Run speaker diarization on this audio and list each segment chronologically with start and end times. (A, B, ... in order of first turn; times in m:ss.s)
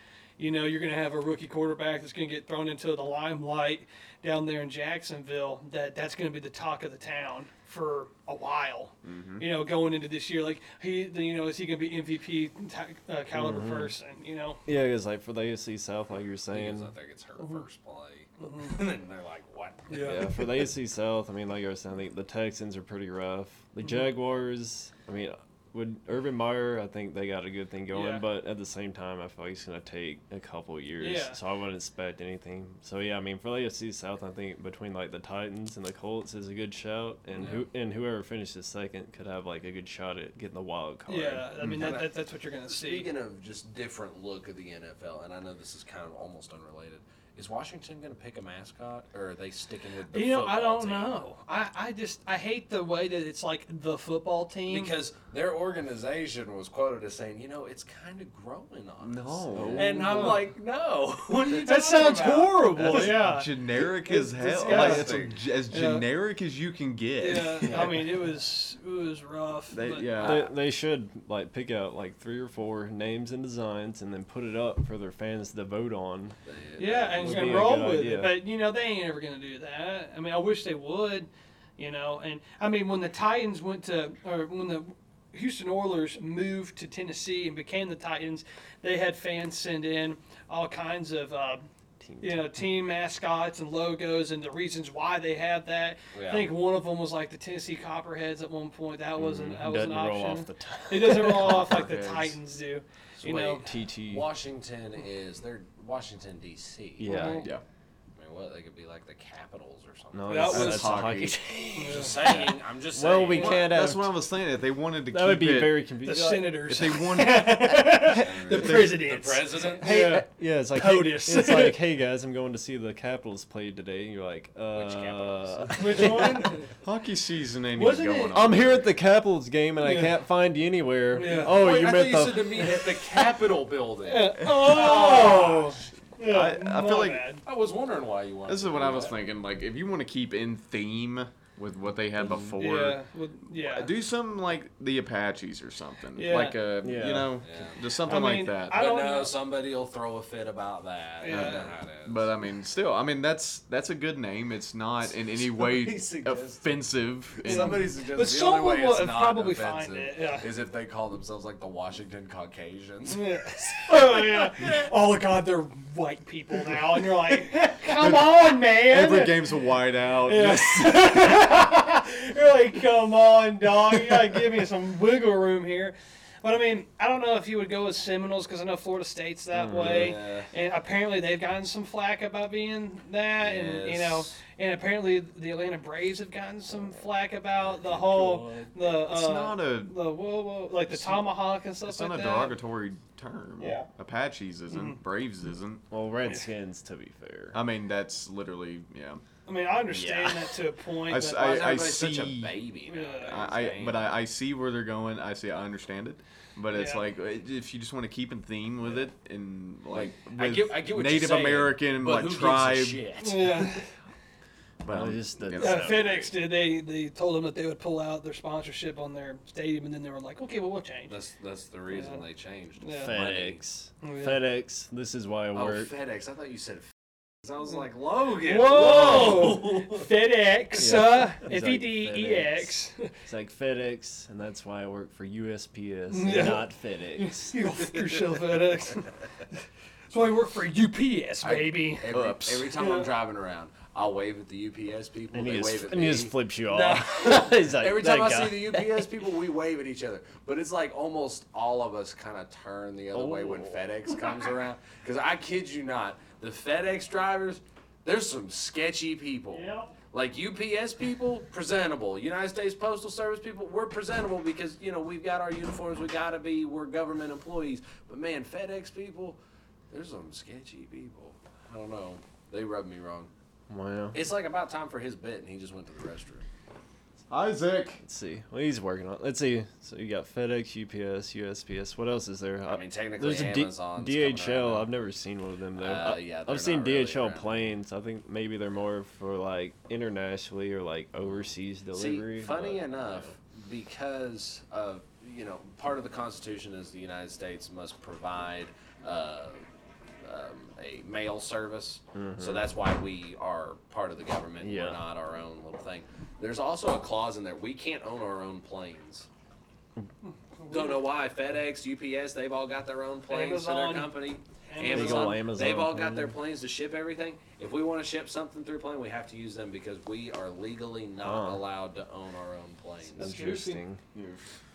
0:00.4-0:14.6 A
0:09.0-0:09.5 B
0:13.3-0:13.9 C
0:14.6-0:16.9 C
0:16.5-0:20.4 D
0:18.4-0:18.8 A
0:19.9-0:20.4 A
0:20.0-0:41.6 C
0:23.8-0:24.1 A
0:27.9-0:28.2 A
0:31.0-0:31.4 A
0:41.1-0:43.1 A
0:41.6-0:42.1 D
0:42.7-0:51.2 D
0:50.1-0:54.9 A
0:54.7-1:03.1 D
0:59.0-1:00.2 B
0:59.5-1:00.4 C
0:59.8-1:00.4 A
1:01.5-1:05.1 A
1:02.8-1:07.9 B
1:04.6-1:05.4 D
1:05.7-1:06.0 A
1:07.2-1:10.2 A
1:07.6-1:08.0 C
1:09.7-1:10.5 B
1:10.2-1:16.4 C
1:16.4-1:17.7 D
1:16.8-1:31.6 A
1:17.2-1:18.4 C
1:32.0-1:32.5 C
1:32.2-1:43.6 A
1:36.1-1:36.5 D
1:39.2-1:41.8 C
1:41.4-1:42.4 B
1:43.2-1:47.4 D
1:43.6-1:44.2 C
1:47.0-1:47.5 C
1:47.0-1:47.5 A
1:48.2-1:50.9 D
1:50.1-1:54.1 C
1:50.3-1:51.0 A
1:50.4-1:51.4 B
1:51.8-1:52.2 A
1:51.8-1:53.7 D
1:53.4-1:55.9 B
1:55.1-1:56.7 C
1:56.0-2:01.8 A
1:56.6-1:59.1 B
1:58.2-2:00.1 D
1:59.8-2:06.6 C
2:04.7-2:06.6 D
2:05.7-2:06.7 A
2:06.8-2:08.9 B
2:07.8-2:08.4 A
2:08.2-2:12.9 C
2:09.8-2:10.1 A
2:11.1-2:11.7 A
2:11.2-2:15.8 D
2:14.0-2:17.4 A
2:14.4-2:15.4 B
2:16.2-2:17.3 B
2:17.4-2:19.2 D
2:18.4-2:23.0 B
2:22.2-2:22.5 C
2:22.6-2:23.9 A
2:23.6-2:28.8 B
2:26.1-2:26.6 A
2:26.8-2:27.4 C
2:27.4-2:27.8 D
2:28.0-2:29.3 A
2:28.7-2:32.3 D
2:31.2-2:31.7 A
2:31.3-2:37.9 B
2:35.3-2:36.8 D
2:37.4-2:44.5 D
2:37.4-2:40.5 A
2:43.1-2:49.4 A
2:47.8-2:51.3 B
2:50.2-3:12.6 A
2:59.5-3:00.2 C
2:59.7-3:00.5 D
3:03.4-3:04.4 D
3:07.6-3:08.7 D
3:09.1-3:10.0 B
3:10.8-3:15.8 B
3:13.6-3:13.9 A
3:14.7-3:15.0 A
3:15.9-3:17.6 C
3:17.5-3:19.2 B
3:19.4-3:21.6 A
3:19.9-3:20.4 D
3:21.0-3:22.6 B
3:21.3-3:24.1 D
3:22.9-3:23.5 A
3:23.2-3:33.0 B
3:26.7-3:27.0 A
3:29.9-3:33.7 D
3:33.2-3:33.8 A
3:34.8-3:36.1 B
3:34.9-3:36.3 C
3:35.6-3:41.2 A
3:41.1-3:43.6 D
3:41.9-3:42.2 A
3:42.8-3:43.1 A
3:43.0-3:45.9 C
3:44.0-3:44.4 A
3:45.5-3:46.9 D
3:47.4-3:50.0 D
3:48.4-3:53.1 A
3:49.0-3:49.5 C
3:50.8-3:57.6 C
3:56.1-3:59.1 A
4:00.1-4:02.1 A
4:01.4-4:29.4 D
4:02.1-4:02.7 B
4:02.7-4:03.1 A
4:05.3-4:09.0 C
4:06.7-4:07.0 A
4:13.1-4:13.8 C
4:19.5-4:19.9 A
4:29.9-4:33.3 D
4:33.7-4:34.2 C
4:34.1-4:36.4 D
4:37.3-4:38.0 B
4:38.0-4:53.3 C
4:42.6-4:44.9 D
4:45.8-4:47.6 D
4:51.2-4:59.6 D
5:00.2-5:09.3 D
5:02.1-5:02.7 C
5:04.6-5:05.0 C
5:10.6-5:11.0 A
5:10.7-5:23.3 D
5:13.3-5:14.1 A
5:14.7-5:15.4 A
5:14.8-5:16.3 C
5:21.2-5:21.6 C
5:23.2-5:23.8 A
5:23.2-5:24.0 C
5:24.1-5:24.4 B